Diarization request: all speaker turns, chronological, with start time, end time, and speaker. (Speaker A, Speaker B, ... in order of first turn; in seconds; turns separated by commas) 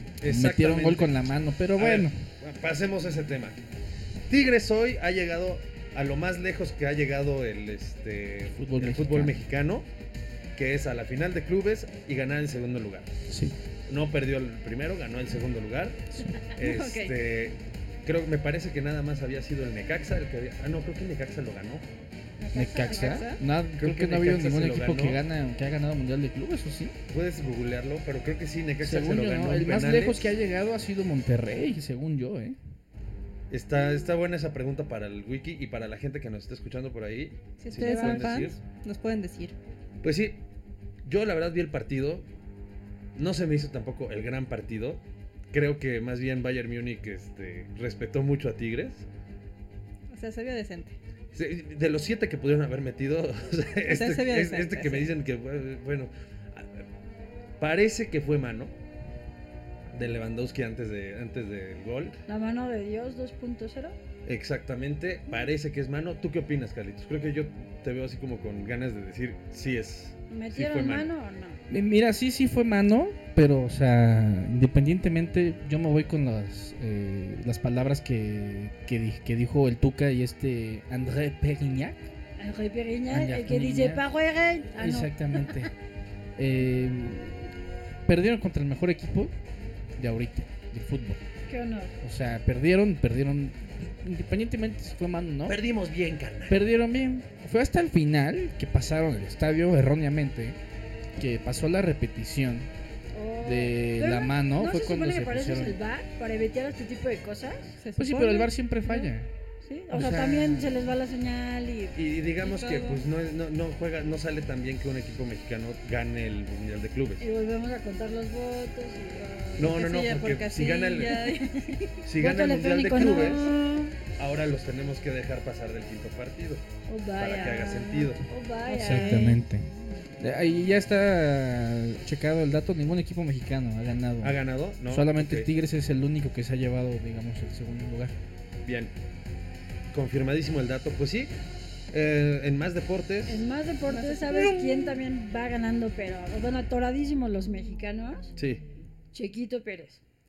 Speaker A: 0.2-3.6, Speaker B: 0.3-2.2, Speaker A: 4.3-9.9, Speaker B: 8.6-9.3, Speaker A: 10.5-13.1, Speaker B: 13.3-13.6, Speaker A: 13.9-21.9, Speaker C: 16.6-17.1, Speaker D: 22.4-23.4, Speaker B: 22.5-27.0, Speaker C: 22.9-23.4, Speaker A: 23.7-25.2, Speaker A: 27.1-30.3, Speaker B: 28.8-32.6, Speaker A: 33.5-38.6, Speaker C: 37.6-39.5, Speaker D: 37.8-38.1, Speaker A: 40.0-40.4, Speaker A: 41.0-42.2, Speaker A: 43.1-49.1, Speaker C: 50.1-51.0, Speaker A: 51.3-56.9, Speaker C: 53.9-55.1, Speaker A: 57.6-58.7, Speaker A: 59.9-62.2, Speaker D: 62.3-64.0, Speaker A: 64.2-71.1, Speaker D: 70.3-71.6, Speaker B: 71.7-82.1, Speaker D: 82.4-85.7, Speaker B: 83.1-84.0, Speaker B: 84.8-85.7, Speaker B: 86.3-87.5, Speaker B: 88.0-89.3, Speaker B: 90.0-91.2, Speaker D: 91.5-92.0, Speaker B: 92.0-95.6, Speaker A: 95.5-96.6, Speaker B: 96.5-100.6, Speaker B: 101.2-102.7, Speaker D: 103.1-107.7, Speaker B: 103.4-105.8, Speaker C: 107.8-108.5, Speaker B: 108.0-109.3, Speaker D: 109.6-112.0, Speaker B: 109.9-110.8, Speaker A: 111.9-117.2, Speaker C: 112.4-113.0, Speaker D: 117.2-119.7, Speaker A: 119.6-121.2, Speaker C: 119.6-122.0, Speaker D: 121.1-124.0, Speaker A: 122.0-123.5, Speaker C: 123.0-123.5, Speaker A: 124.2-126.6, Speaker D: 126.9-129.4, Speaker A: 127.2-128.2, Speaker C: 128.7-129.4, Speaker B: 128.7-129.7, Speaker B: 130.2-138.1, Speaker A: 134.2-135.5, Speaker A: 138.6-138.9, Speaker A: 139.9-141.3, Speaker A: 141.9-143.4, Speaker D: 143.2-148.4, Speaker C: 143.9-144.7, Speaker A: 148.4-148.6, Speaker D: 149.1-150.0